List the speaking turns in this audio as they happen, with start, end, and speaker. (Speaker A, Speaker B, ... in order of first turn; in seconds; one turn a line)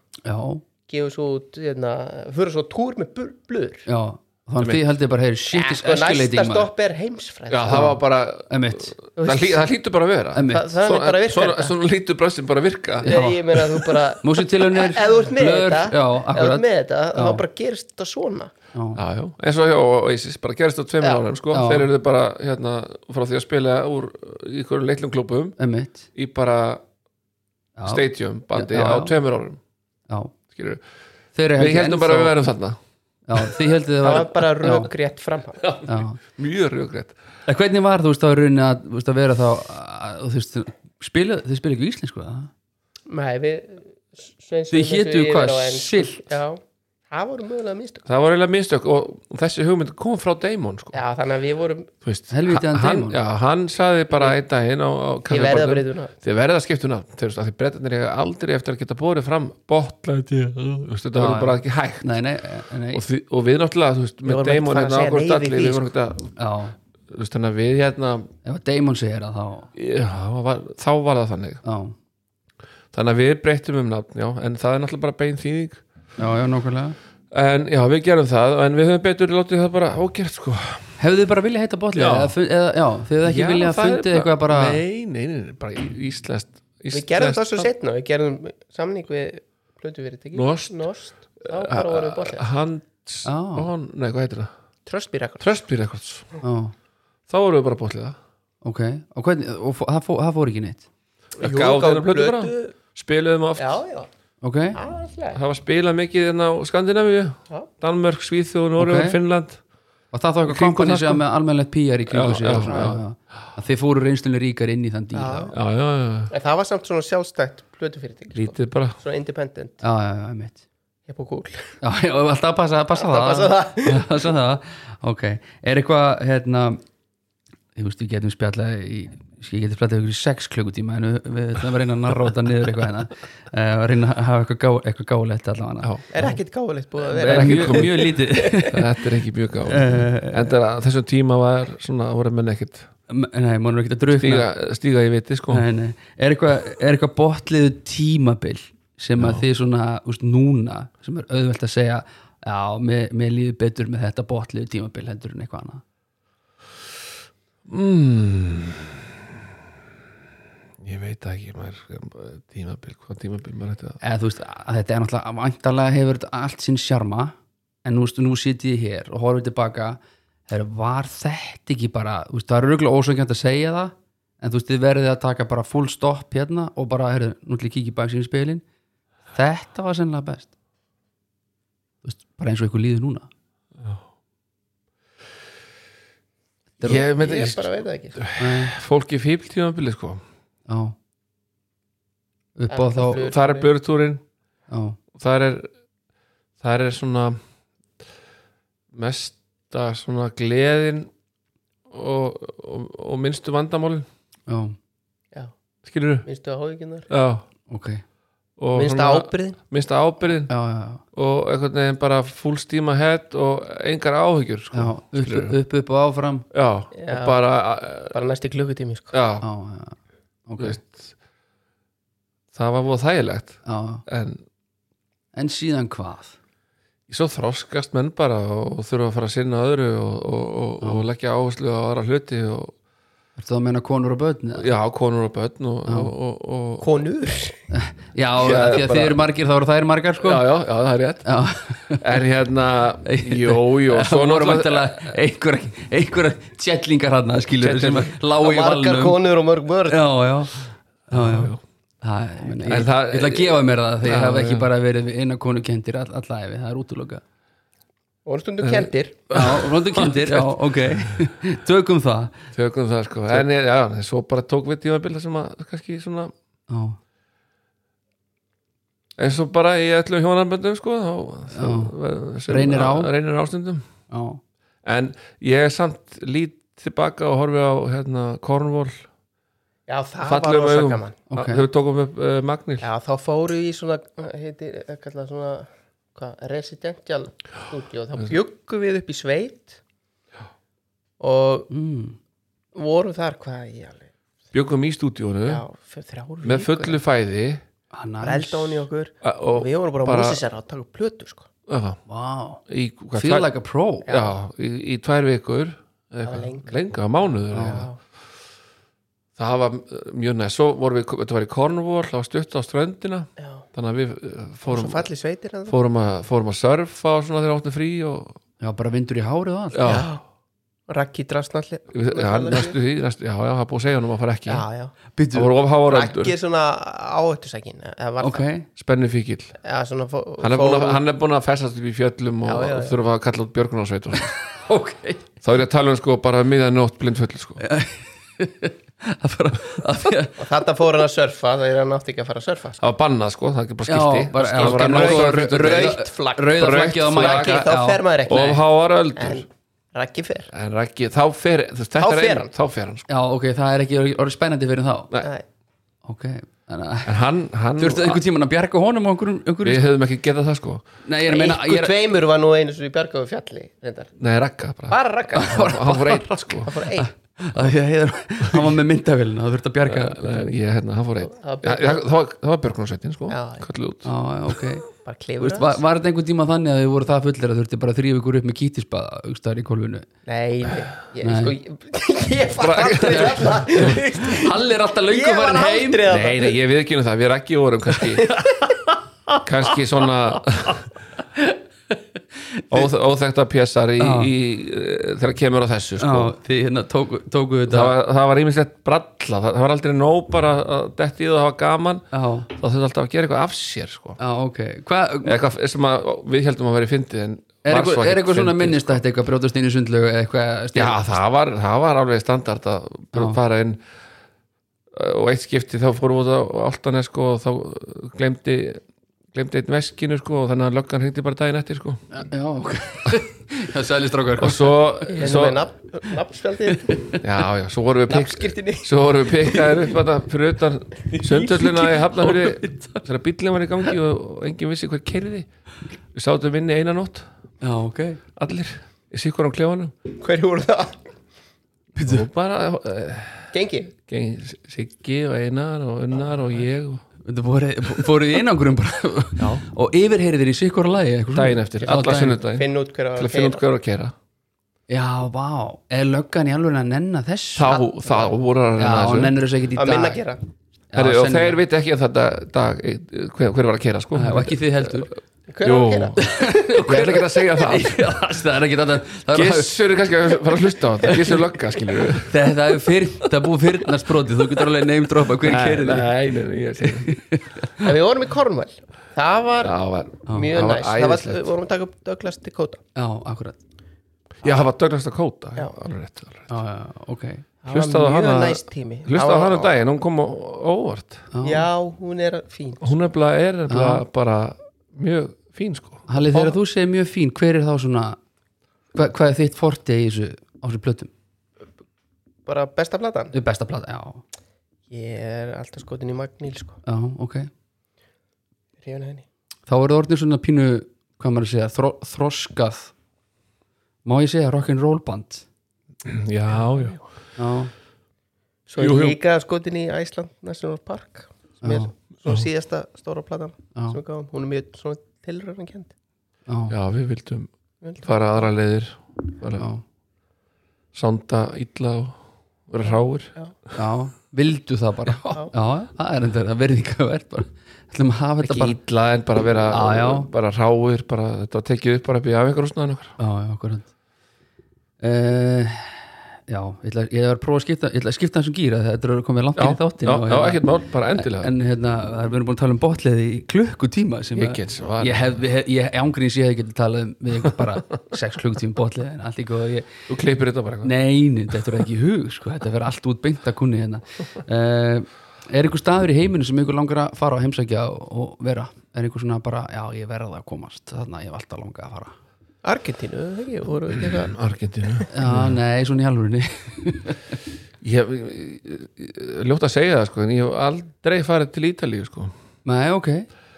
Speaker A: 0.2-0.6
Speaker B: 0.9-3.9
Speaker A: 3.9-6.7
Speaker B: 5.5-7.9
Speaker C: 7.5-13.6
Speaker A: 7.7-8.0
Speaker A: 8.5-9.0
Speaker B: 9.2-9.6
Speaker A: 10.3-10.7
Speaker B: 10.5-11.8
Speaker A: 13.0-13.4
Speaker B: 13.1-18.5
Speaker A: 14.2-17.4
Speaker A: 18.7-19.0
Speaker C: 18.9-25.6
Speaker A: 21.5-21.9
Speaker A: 25.6-26.1
Speaker C: 26.1-26.8
Speaker A: 27.8-29.1
Speaker C: 27.9-29.6
Speaker A: 30.1-30.4
Speaker C: 30.5-30.8
Speaker A: 31.4-32.4
Speaker C: 31.6-32.8
Speaker A: 33.3-34.9
Speaker B: 34.0-35.6
Speaker C: 35.6-37.1
Speaker A: 35.9-36.2
Speaker A: 37.5-42.5
Speaker B: 43.1-46.6
Speaker A: 44.7-46.4
Speaker B: 47.1-48.0
Speaker C: 48.1-51.0
Speaker B: 50.9-51.9
Speaker C: 52.0-62.2
Speaker A: 52.3-53.2
Speaker B: 55.3-56.1
Speaker A: 61.1-63.0
Speaker C: 62.9-66.3
Speaker B: 64.2-65.9
Speaker A: 66.4-66.8
Speaker C: 67.1-68.3
Speaker A: 68.4-69.7
Speaker C: 69.8-71.6
Speaker A: 71.6-72.0
Speaker C: 72.9-75.8
Speaker A: 76.2-77.0
Speaker C: 77.3-80.9
Speaker A: 81.0-84.8
Speaker C: 82.0-82.3
Speaker C: 83.2-87.7
Speaker B: 86.9-92.5
Speaker C: 90.3-90.8
Speaker C: 91.4-94.5
Speaker A: 93.2-93.7
Speaker B: 94.9-95.5
Speaker C: 95.4-96.3
Speaker A: 96.4-96.7
Speaker C: 97.3-98.2
Speaker A: 98.6-100.9
Speaker C: 101.4-103.8
Speaker B: 101.4-102.8
Speaker B: 103.6-104.1
Speaker A: 104.4-104.8
Speaker B: 104.7-105.4
Speaker C: 105.3-109.6
Speaker A: 108.8-109.2
Speaker A: 110.1-115.5
Speaker C: 110.5-111.2
Speaker C: 112.1-113.0
Speaker B: 115.1-115.6
Speaker C: 115.5-116.3
Speaker B: 116.3-119.8
Speaker C: 118.3-119.0
Speaker A: 119.8-120.6
Speaker B: 121.1-121.8
Speaker A: 121.8-126.8
Speaker B: 123.0-124.1
Speaker A: 127.8-136.3
Speaker C: 135.8-136.3
Speaker B: 136.1-138.5
Speaker A: 137.1-138.9
Speaker C: 137.2-142.9
Speaker A: 139.7-140.5
Speaker A: 143.1-144.5
Speaker C: 144.1-145.7
Speaker A: 145.5-155.8
Speaker C: 149.2-149.4
Speaker C: 157.7-159.1
Speaker C: 160.8-164.0
Speaker A: 164.0-178.6
Speaker A: 179.3-180.5
Speaker A: 182.0-183.3
Speaker C: 186.8-190.2
Speaker B: 186.9-188.2
Speaker A: 188.4-188.8
Speaker A: 190.7-191.0
Speaker A: 192.6-193.3
Speaker B: 192.7-193.7
Speaker C: 193.2-194.2
Speaker A: 194.7-195.0
Speaker C: 195.2-195.7
Speaker C: 196.6-197.4
Speaker C: 198.9-201.1
Speaker C: 201.9-204.1
Speaker A: 204.5-204.8
Speaker C: 205.8-206.3
Speaker B: 206.2-207.1
Speaker C: 207.1-207.4
Speaker A: 207.7-208.0
Speaker C: 208.6-210.5
Speaker B: 208.7-209.6
Speaker A: 210.5-211.0
Speaker C: 211.1-215.6
Speaker A: 214.7-216.5
Speaker C: 216.5-218.2
Speaker B: 216.9-217.4
Speaker B: 217.9-219.1
Speaker C: 219.1-219.4
Speaker A: 219.4-220.8
Speaker C: 220.6-221.1
Speaker C: 222.5-224.4
Speaker A: 223.7-224.0
Speaker A: 225.3-226.4
Speaker C: 227.1-232.7
Speaker A: 233.4-234.7
Speaker C: 234.6-236.9
Speaker A: 235.9-236.1
Speaker B: 236.8-237.6
Speaker A: 237.7-240.5
Speaker C: 238.4-239.2
Speaker C: 240.2-241.3
Speaker A: 241.2-242.1
Speaker C: 242.0-245.1
Speaker A: 243.0-249.2
Speaker C: 247.6-248.2
Speaker B: 248.3-250.0
Speaker A: 249.9-257.2
Speaker C: 251.1-251.6
Speaker C: 252.6-254.7
Speaker B: 258.3-259.2
Speaker C: 258.6-261.1
Speaker A: 259.3-262.5
Speaker C: 262.5-266.3
Speaker A: 266.7-267.0
Speaker C: 269.2-273.9
Speaker A: 271.5-271.9
Speaker A: 272.5-273.1
Speaker A: 274.1-274.4
Speaker C: 274.8-279.1
Speaker B: 279.9-281.2
Speaker C: 280.2-282.9
Speaker A: 281.3-281.6
Speaker B: 282.8-289.8
Speaker B: 291.2-291.7
Speaker A: 291.7-292.2
Speaker B: 292.8-294.1
Speaker C: 294.5-295.6
Speaker B: 295.5-297.0
Speaker C: 296.4-297.6
Speaker A: 297.9-298.9
Speaker B: 298.2-301.5
Speaker C: 299.2-300.4
Speaker C: 301.7-302.0
Speaker A: 302.1-302.6
Speaker C: 302.7-303.5
Speaker A: 303.1-304.1
Speaker B: 304.1-304.3
Speaker C: 304.1-307.9
Speaker B: 306.2-306.8
Speaker A: 307.5-307.9
Speaker B: 307.6-308.0
Speaker C: 309.4-315.1
Speaker B: 313.4-313.6
Speaker B: 314.6-315.8
Speaker C: 315.7-318.4
Speaker A: 318.6-320.1
Speaker C: 319.7-320.1
Speaker B: 319.8-320.2
Speaker B: 320.9-322.8
Speaker C: 321.9-324.6
Speaker B: 324.5-324.9
Speaker A: 325.1-325.5
Speaker C: 325.3-326.4
Speaker B: 325.9-328.5
Speaker A: 328.2-328.7
Speaker C: 328.8-329.6
Speaker B: 329.6-331.0
Speaker C: 330.4-334.4
Speaker B: 332.5-333.0
Speaker A: 334.1-335.2
Speaker C: 335.4-337.6
Speaker A: 337.6-340.4
Speaker B: 340.4-342.8
Speaker C: 342.8-346.0
Speaker A: 343.9-348.0
Speaker B: 344.4-348.6
Speaker C: 346.6-347.6
Speaker C: 348.3-349.5
Speaker B: 349.2-350.5
Speaker C: 350.5-353.1
Speaker B: 352.0-352.5
Speaker A: 353.1-355.1
Speaker A: 356.0-357.2
Speaker C: 357.1-358.2
Speaker A: 357.8-359.9
Speaker C: 359.6-360.8
Speaker A: 361.0-361.9
Speaker B: 361.3-364.1
Speaker C: 364.2-366.7
Speaker B: 364.9-365.7
Speaker A: 365.4-370.4
Speaker B: 366.6-367.1
Speaker C: 369.9-374.1
Speaker B: 371.2-372.0
Speaker B: 373.3-373.7
Speaker A: 374.1-374.9
Speaker B: 375.0-375.8
Speaker A: 375.4-380.1
Speaker B: 380.3-386.6
Speaker A: 381.2-381.5
Speaker C: 382.6-383.9
Speaker A: 383.1-386.0
Speaker C: 386.1-388.3
Speaker A: 388.3-388.7
Speaker C: 389.4-390.9
Speaker A: 391.4-392.9
Speaker C: 392.7-396.4
Speaker A: 394.0-394.3
Speaker A: 396.0-397.9
Speaker C: 397.7-404.2
Speaker A: 402.1-402.5
Speaker A: 404.2-405.4
Speaker C: 405.2-409.0
Speaker A: 407.6-411.1
Speaker C: 410.7-413.8
Speaker A: 413.1-413.4
Speaker C: 414.9-418.8
Speaker C: 419.3-422.0
Speaker A: 422.1-424.9
Speaker C: 424.4-425.6
Speaker B: 425.1-427.1
Speaker A: 426.8-427.2
Speaker C: 427.2-435.5
Speaker B: 428.1-429.8
Speaker A: 431.2-433.1
Speaker C: 436.1-437.3
Speaker A: 437.6-438.2
Speaker C: 438.4-440.0
Speaker B: 440.1-441.0
Speaker A: 442.0-442.3
Speaker C: 442.1-447.0
Speaker B: 443.5-443.9
Speaker A: 447.2-452.4
Speaker C: 449.4-449.6
Speaker C: 451.3-454.1
Speaker B: 452.5-453.6
Speaker A: 454.9-457.8
Speaker C: 457.6-459.3
Speaker B: 457.7-458.3
Speaker A: 458.8-460.2
Speaker B: 459.8-460.4
Speaker A: 460.9-461.6
Speaker C: 460.9-464.9
Speaker A: 464.1-465.1
Speaker B: 465.5-466.3
Speaker C: 465.6-466.2
Speaker A: 466.2-469.8
Speaker C: 466.8-468.1
Speaker C: 469.3-472.4
Speaker A: 472.2-476.1
Speaker C: 475.4-477.2
Speaker A: 476.9-477.9
Speaker B: 477.8-479.8
Speaker C: 479.6-481.5
Speaker B: 480.3-482.8
Speaker A: 483.0-483.6
Speaker C: 484.4-486.5
Speaker A: 486.5-487.5
Speaker B: 487.6-489.7
Speaker C: 487.7-491.3
Speaker A: 491.3-491.7
Speaker B: 491.4-492.9
Speaker C: 492.8-496.1
Speaker A: 493.7-494.0
Speaker A: 496.1-498.2
Speaker A: 498.9-501.1
Speaker B: 502.5-503.3
Speaker A: 503.3-504.2
Speaker B: 504.9-506.8
Speaker A: 506.9-507.5
Speaker B: 508.8-509.3
Speaker A: 509.7-512.9
Speaker A: 514.1-515.5
Speaker C: 516.0-517.0
Speaker A: 517.4-517.7
Speaker B: 518.7-525.9
Speaker C: 518.8-519.2
Speaker A: 521.6-521.9
Speaker A: 526.5-526.7
Speaker C: 526.7-527.5
Speaker B: 527.8-528.1
Speaker C: 528.0-529.7
Speaker A: 529.6-529.8
Speaker C: 530.9-533.3
Speaker A: 533.8-538.8
Speaker C: 538.4-543.2
Speaker A: 539.7-540.3
Speaker A: 543.2-543.9
Speaker A: 545.0-559.9
Speaker C: 549.6-551.5
Speaker C: 554.4-555.4
Speaker C: 560.1-560.9
Speaker A: 560.8-572.1
Speaker B: 572.6-574.4
Speaker C: 574.0-575.6
Speaker A: 575.1-577.4
Speaker C: 577.8-582.3
Speaker A: 582.6-583.3